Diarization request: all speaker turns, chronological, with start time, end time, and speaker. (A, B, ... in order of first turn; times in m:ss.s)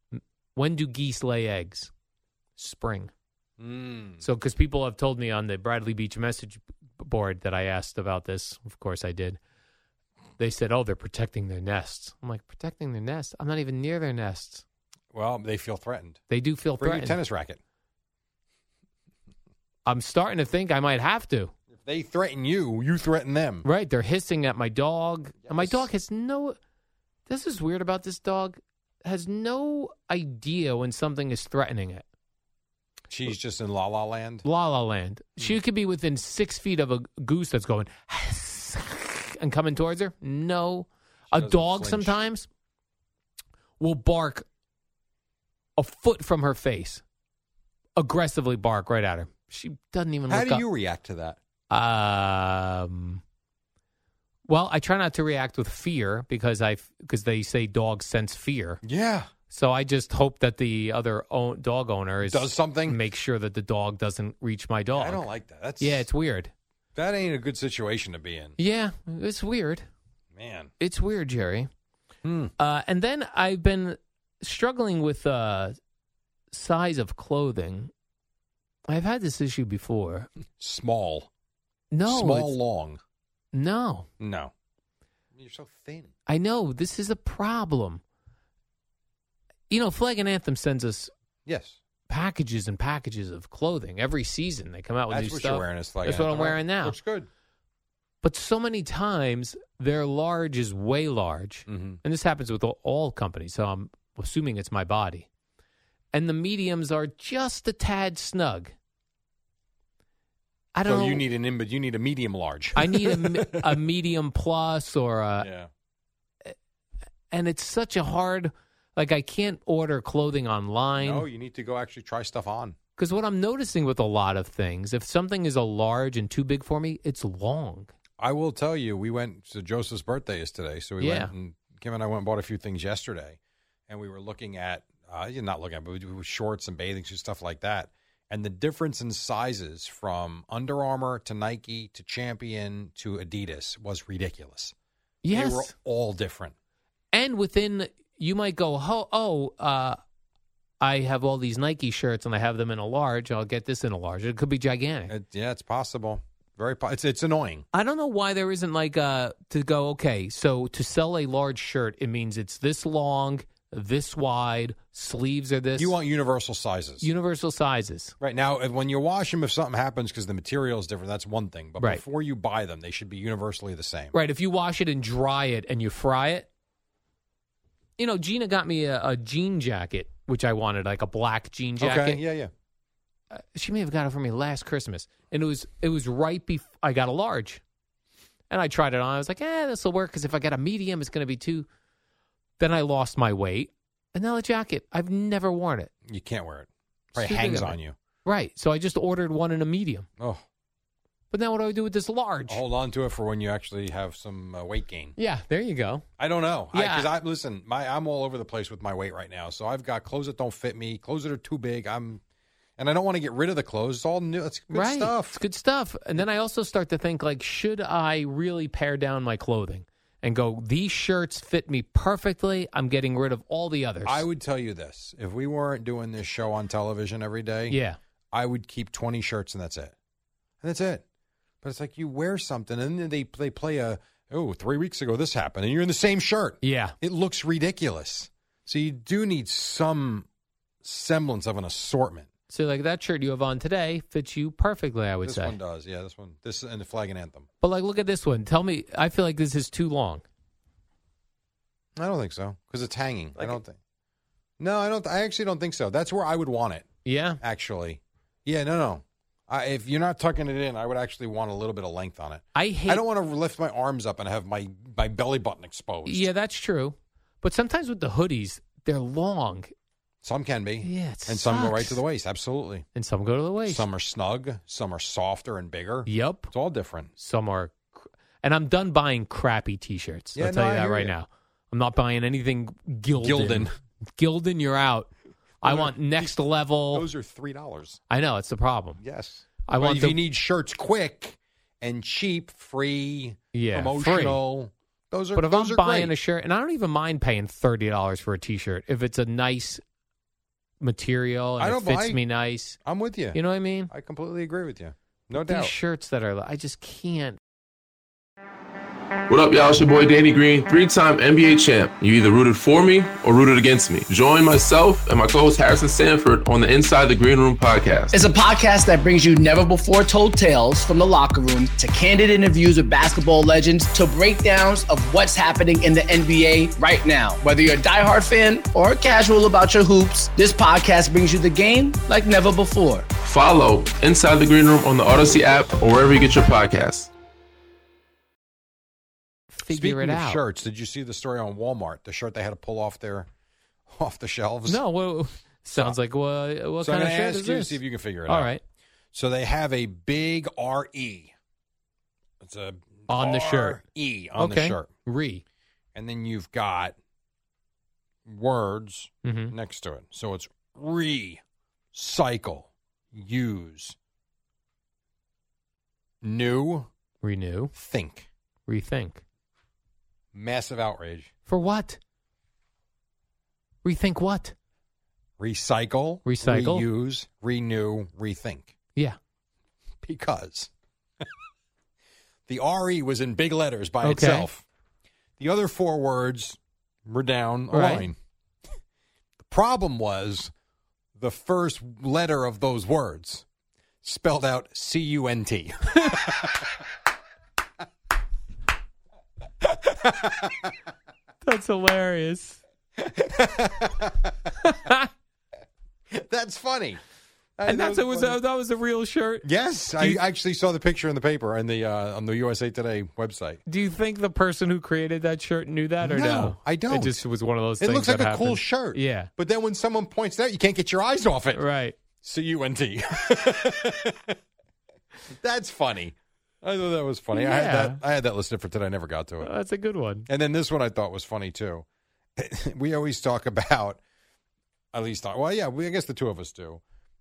0:00.6-0:01.9 A
0:02.6-0:03.1 A
0:03.6-0:04.2 B
0:04.2-0:09.4 A
0:10.4-0:14.6 A
0:15.1-0:16.2 B
0:16.3-0:17.2 A
0:16.8-0:17.6 B
0:19.9-0:21.5 A
0:21.7-0:23.6 B
0:23.6-0:26.6 A
0:25.4-0:25.9 B
0:27.3-0:32.0 A
0:33.1-0:34.4 B
0:34.4-0:42.5 A
0:41.3-0:42.2 B
0:43.8-0:44.4 A
0:45.8-0:47.0 A
0:48.0-0:50.6 A
0:50.3-0:51.4 B
0:51.7-0:53.2 A
0:54.5-0:58.8 A
0:58.8-0:59.3 B
0:59.5-1:05.3 A
1:02.2-1:03.0 B
1:04.9-1:06.1 B
1:05.8-1:06.5 A
1:07.0-1:08.6 B
1:08.6-1:09.8 A
1:10.4-1:10.7 B
1:10.8-1:11.7 A
1:12.2-1:12.5 B
1:12.6-1:15.8 A
1:16.5-1:17.9 A
1:18.9-1:20.3 A
1:20.6-1:21.3 B
1:21.9-1:22.6 A
1:22.1-1:23.0 B
1:23.5-1:24.1 A
1:24.2-1:24.5 B
1:25.4-1:26.1 B
1:26.3-1:28.0 A
1:29.7-1:31.1 A
1:31.5-1:31.8 B
1:32.1-1:37.0 A
1:35.1-1:37.3 B
1:38.2-1:45.3 A
1:41.7-1:42.0 B
1:46.1-1:48.7 A
1:50.8-1:51.2 A
1:50.9-1:53.8 B
1:52.8-1:55.5 A
1:55.4-1:55.7 B
1:57.3-2:01.3 A
2:01.0-2:02.8 B
2:03.0-2:07.9 A
2:08.2-2:24.8 B
2:11.0-2:11.3 A
2:25.2-2:25.7 A
2:25.3-2:26.6 B
2:27.1-2:30.0 A
2:30.8-2:35.1 A
2:35.1-2:37.6 B
2:37.7-2:45.9 A
2:45.8-2:47.1 B
2:47.0-2:48.2 A
2:48.2-2:54.2 B
2:54.1-2:56.5 A
2:58.0-3:02.2 A
3:01.8-3:02.5 B
3:03.3-3:07.6 A
3:08.5-3:11.7 A
3:12.6-3:15.9 A
3:16.0-3:18.0 B
3:17.2-3:20.1 A
3:21.3-3:22.6 A
3:22.5-3:25.2 B
3:25.2-3:26.0 A
3:26.2-3:32.2 B
3:26.7-3:27.1 A
3:32.8-3:35.4 B
3:34.7-3:44.2 A
3:44.0-3:47.8 B
3:47.7-3:48.0 A
3:48.3-3:49.9 B
3:50.6-3:51.0 B
3:51.6-4:00.3 B
3:56.6-3:57.0 A
4:00.8-4:02.3 B
4:02.5-4:05.6 A
4:05.2-4:07.5 B
4:07.6-4:10.2 A
4:12.0-4:13.8 B
4:14.6-4:16.9 B
4:17.0-4:17.4 A
4:17.4-4:26.3 B
4:22.6-4:23.0 A
4:26.1-4:29.7 A
4:30.2-4:32.9 B
4:30.8-4:32.0 A
4:33.0-4:33.9 A
4:33.7-4:37.1 B
4:36.1-4:36.5 A
4:37.2-4:45.1 A
4:40.4-4:41.2 B
4:43.2-4:43.7 B
4:45.6-4:47.1 A
4:45.6-4:46.4 B
4:46.9-4:48.0 B
4:48.1-4:49.0 A
4:49.0-4:56.2 B
4:49.7-4:50.2 A
4:53.5-4:54.4 A
4:55.4-4:59.8 A
5:00.8-5:02.8 A
5:01.6-5:02.2 B
5:02.8-5:05.7 B
5:03.3-5:03.9 A
5:05.3-5:07.4 A
5:09.3-5:18.2 C
5:18.1-5:33.1 D
5:33.2-5:37.1 C
5:39.6-5:40.4 A
5:39.7-5:43.3 B
5:43.9-5:44.8 B
5:44.7-5:48.6 A
5:46.8-5:48.5 B
5:49.1-5:51.3 B
5:52.4-5:54.9 B
5:53.1-5:53.8 A
5:54.4-5:55.4 A
5:56.0-5:57.0 B
5:58.3-6:01.4 B
5:59.2-5:59.6 A
6:01.9-6:04.0 B
6:06.2-6:06.9 B
6:07.2-6:07.7 A
6:07.7-6:08.3 B
6:08.7-6:09.2 A
6:10.3-6:11.3 B
6:11.5-6:12.0 A
6:13.8-6:14.6 A
6:15.4-6:18.8 B
6:16.2-6:16.9 A
6:20.0-6:20.7 B
6:22.5-6:24.6 B
6:24.0-6:24.5 A
6:25.4-6:28.2 B
6:27.7-6:28.1 A
6:29.4-6:30.5 B
6:31.2-6:33.4 B
6:34.0-6:36.6 B
6:39.7-6:40.7 B
6:41.4-6:42.6 A
6:43.0-6:44.5 B
6:44.6-6:45.1 A
6:46.1-6:47.0 B
6:47.6-6:48.4 B
6:47.7-6:50.2 A
6:49.4-6:53.6 B
6:53.7-6:59.3 A
6:56.0-6:57.2 B
6:57.8-7:01.6 B
7:01.6-7:02.0 A
7:02.2-7:04.4 B
7:05.3-7:09.5 B
7:07.3-7:08.0 A
7:09.4-7:10.3 A
7:10.3-7:11.9 B
7:12.4-7:14.0 B
7:14.9-7:16.8 B